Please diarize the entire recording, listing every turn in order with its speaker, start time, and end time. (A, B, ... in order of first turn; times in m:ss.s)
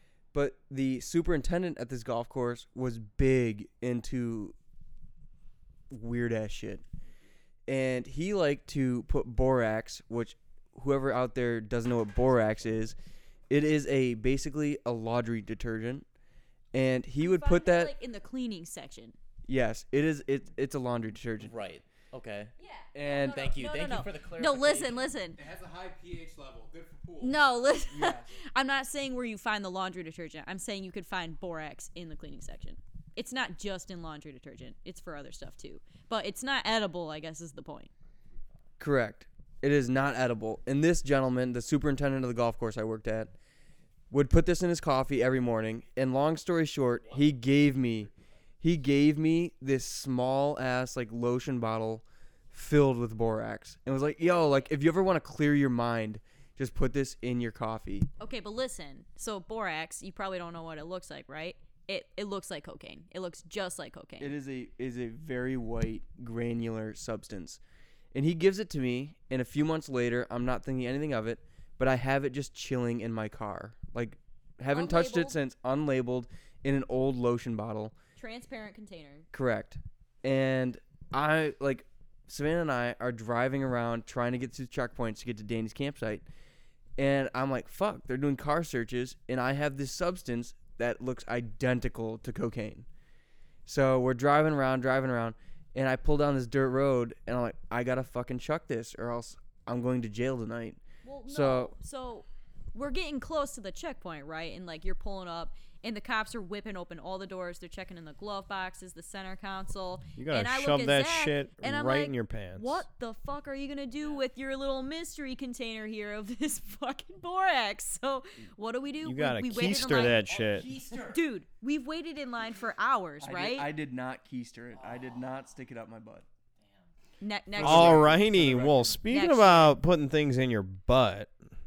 0:00.3-0:04.6 A
0:05.9-0:06.8 A
0:07.7-0:13.0 A
0:13.5-0:16.1 A
0:16.7-0:17.9 A
0:17.2-0:19.2 B
0:19.5-0:21.5 A
0:21.4-0:22.5 C
0:22.6-0:25.4 B
0:22.9-0:23.5 A
0:23.2-0:25.1 C
0:25.4-0:27.4 D
0:27.2-0:37.9 B
0:27.9-0:28.3 A
0:38.8-0:43.3 A
0:44.1-0:58.1 A
0:58.2-1:04.4 B
1:04.2-1:07.6 A
1:08.1-1:18.0 A
1:14.7-1:15.4 B
1:18.2-1:19.3 B
1:19.3-1:26.2 A
1:27.0-1:32.9 A
1:33.7-1:41.7 A
1:41.0-2:00.2 B
1:50.2-1:52.8 E
1:59.0-2:00.7 E
1:59.6-2:01.2 C
2:01.1-2:03.7 B
2:03.2-2:06.3 A
2:04.7-2:05.3 C
2:06.6-2:06.9 C
2:07.2-2:08.0 B
2:07.6-2:08.9 A
2:07.6-2:11.4 E
2:09.1-2:09.8 B